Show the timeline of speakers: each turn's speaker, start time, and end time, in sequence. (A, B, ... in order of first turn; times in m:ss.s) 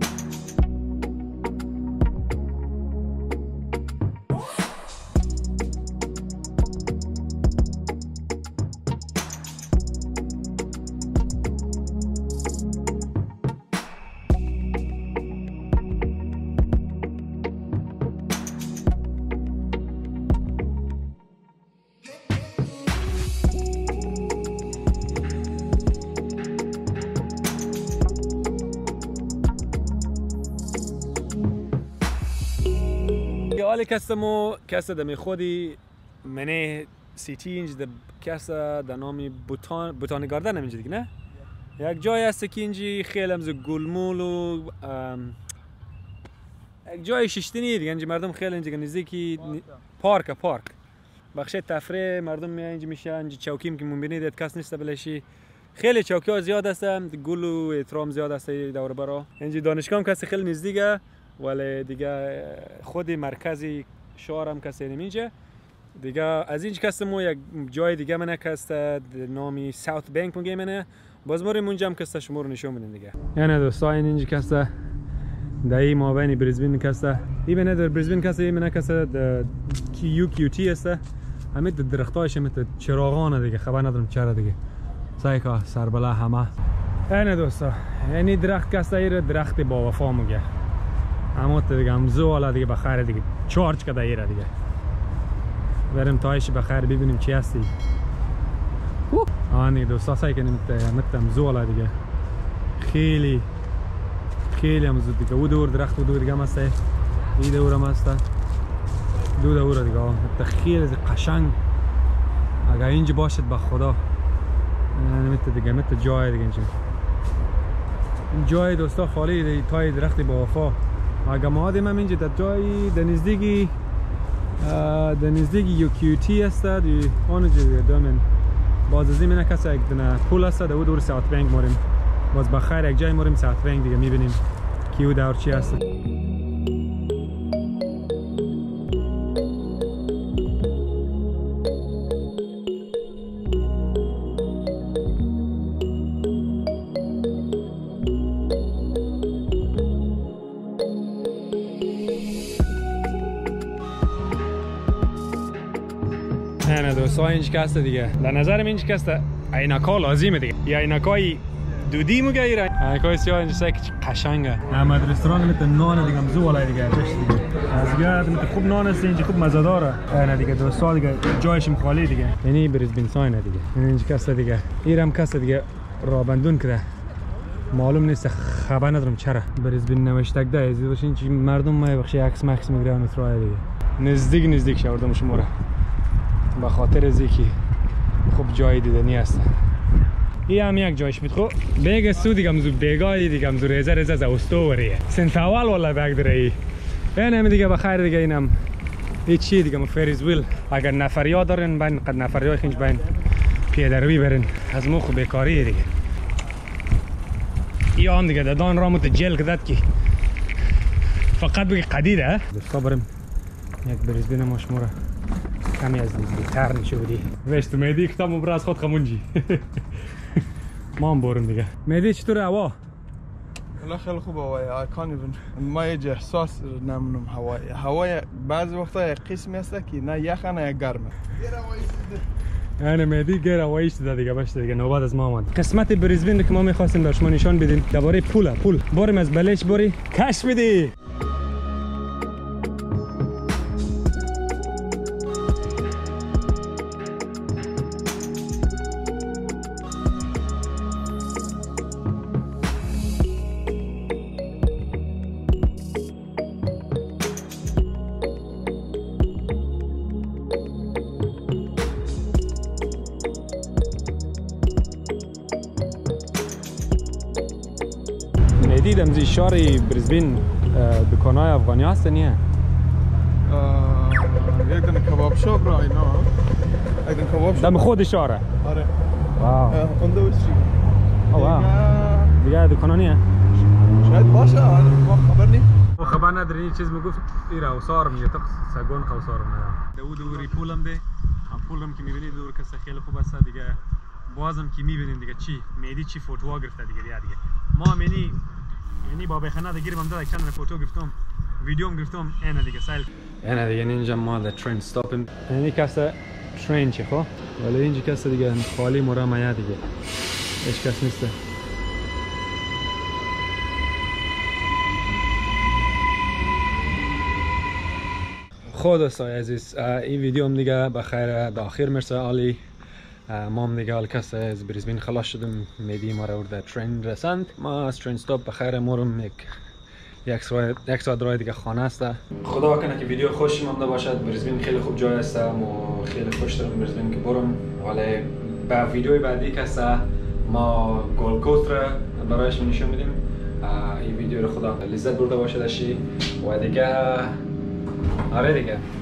0:33.5-0:41.1 A
0:41.8-0:45.4 A
0:46.8-0:50.7 A
0:51.3-1:05.3 A
1:06.0-1:14.7 A
1:15.6-1:21.0 A
1:21.5-1:24.6 A
1:25.2-1:26.5 A
1:27.1-1:30.4 A
1:31.3-1:34.5 A
1:35.9-1:37.7 A
1:39.1-1:41.9 A
1:42.8-1:43.5 A
1:44.5-1:46.7 A
1:47.4-1:48.2 A
1:49.4-1:51.6 A
1:52.6-1:54.0 A
1:54.9-1:56.7 A
1:58.3-2:03.7 A
2:04.6-2:08.2 A
2:08.9-2:15.8 A
2:36.6-2:56.9 A
2:57.7-3:05.5 A
3:06.5-3:07.6 A
3:08.2-3:09.5 A
3:10.5-3:16.6 A
3:17.1-3:18.5 A
3:19.2-3:23.1 A
3:23.7-3:25.9 A
3:27.9-3:29.8 A
3:31.3-3:33.1 A
3:33.8-3:34.9 A
3:35.7-3:39.8 A
3:41.0-3:42.8 A
3:43.8-3:52.2 B
3:52.8-4:00.9 A
4:28.6-4:32.4 A
4:33.5-4:36.3 B
4:37.0-4:37.9 B
4:37.6-4:38.5 A
4:38.6-4:38.9 B
4:39.3-4:39.8 A
4:39.7-4:40.7 B
4:41.3-4:41.7 A
4:41.3-4:42.4 B
4:42.4-4:43.2 A
4:44.0-4:45.7 B
4:46.0-4:58.4 A
4:59.0-5:09.8 A
5:10.6-5:11.4 A
5:18.7-5:22.6 A
5:23.3-5:29.5 A
5:30.2-5:47.4 A
5:48.3-5:48.9 A